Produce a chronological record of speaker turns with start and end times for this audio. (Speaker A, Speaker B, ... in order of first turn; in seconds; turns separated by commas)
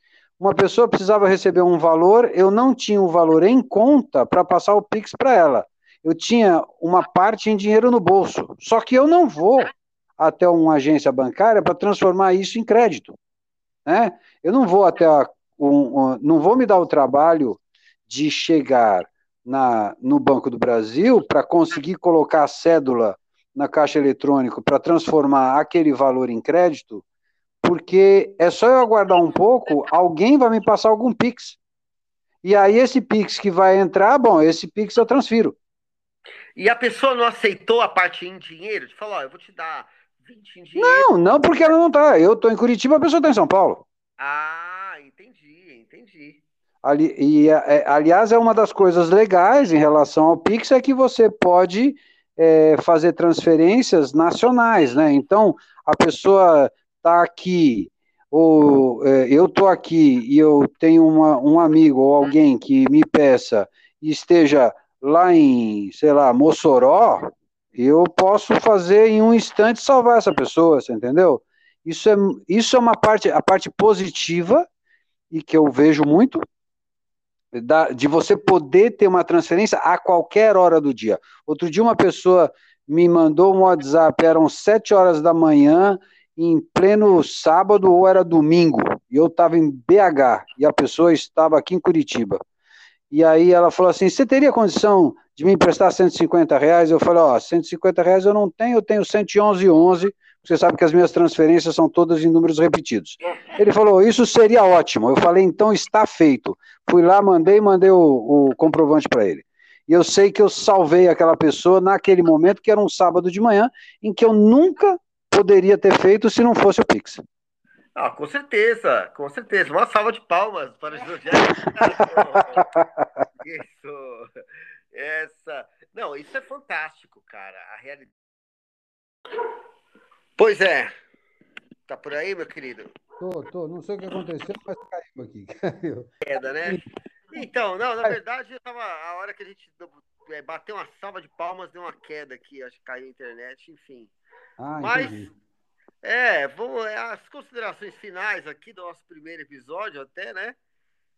Speaker A: 0.4-13.2, Speaker A: 13.8-27.0, Speaker A: 27.6-31.6, Speaker A: 32.4-35.6, Speaker B: 36.5-41.2, Speaker A: 40.8-43.8, Speaker B: 44.2-46.4, Speaker A: 46.8-74.7, Speaker A: 75.3-76.4, Speaker A: 77.5-92.4, Speaker A: 93.1-117.2, Speaker B: 118.0-122.7, Speaker A: 121.9-123.0, Speaker B: 123.4-124.3, Speaker B: 124.9-128.1, Speaker B: 130.4-130.9, Speaker B: 131.9-132.9, Speaker A: 133.2-136.1, Speaker B: 136.2-144.1, Speaker A: 144.6-145.3, Speaker B: 144.8-145.3, Speaker B: 146.0-150.6